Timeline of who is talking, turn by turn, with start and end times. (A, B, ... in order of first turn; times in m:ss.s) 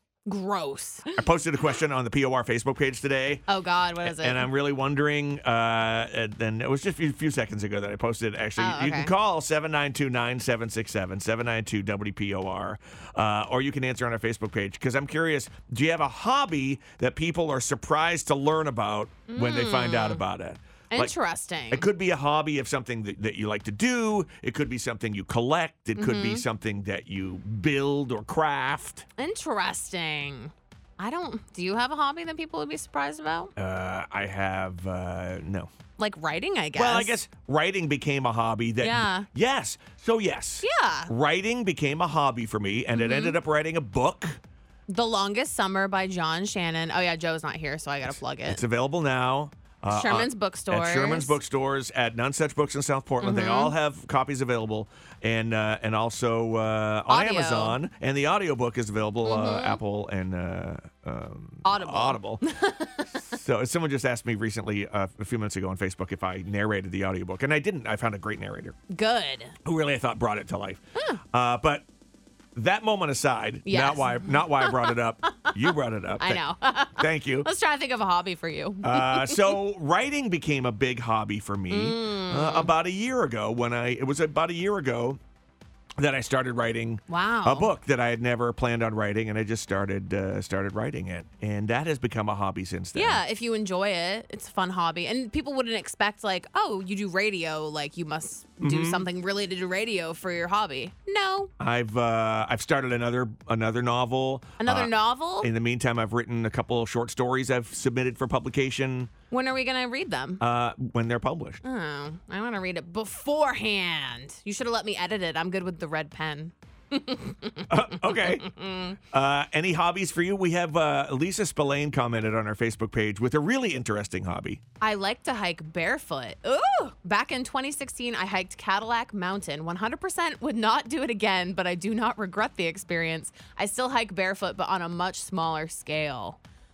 0:00.3-0:01.2 A
0:01.2-0:03.4 B
0:03.5-0:04.5 A
0:04.0-0:21.1 B
0:08.6-0:09.1 A
0:19.3-0:20.2 A
0:20.9-0:21.9 A
0:21.7-0:29.1 B
0:26.0-0:26.4 A
0:29.2-0:33.6 A
0:33.6-0:35.7 B
0:36.0-0:37.2 A
0:36.8-0:44.4 B
0:38.8-0:39.3 A
0:40.6-0:41.1 A
0:42.9-0:43.4 A
0:44.9-0:48.6 A
0:48.4-1:02.4 B
0:49.9-0:51.4 A
0:53.2-0:53.7 A
0:57.1-0:57.8 A
0:59.2-0:59.8 A
1:01.6-1:03.2 A
1:03.2-1:08.8 B
1:08.9-1:09.6 A
1:09.6-1:11.9 B
1:12.6-1:16.4 B
1:13.7-1:19.6 A
1:17.0-1:17.5 B
1:18.8-1:25.2 B
1:21.7-1:22.7 A
1:26.0-1:33.2 B
1:27.1-1:27.7 A
1:33.0-1:41.5 A
1:38.6-1:39.1 B
1:41.6-1:49.1 B
1:44.6-1:45.5 A
1:49.3-1:50.4 A
1:50.4-1:51.6 B
1:51.6-1:59.0 A
1:57.7-1:58.5 B
1:59.1-2:04.6 B
2:04.8-2:16.4 A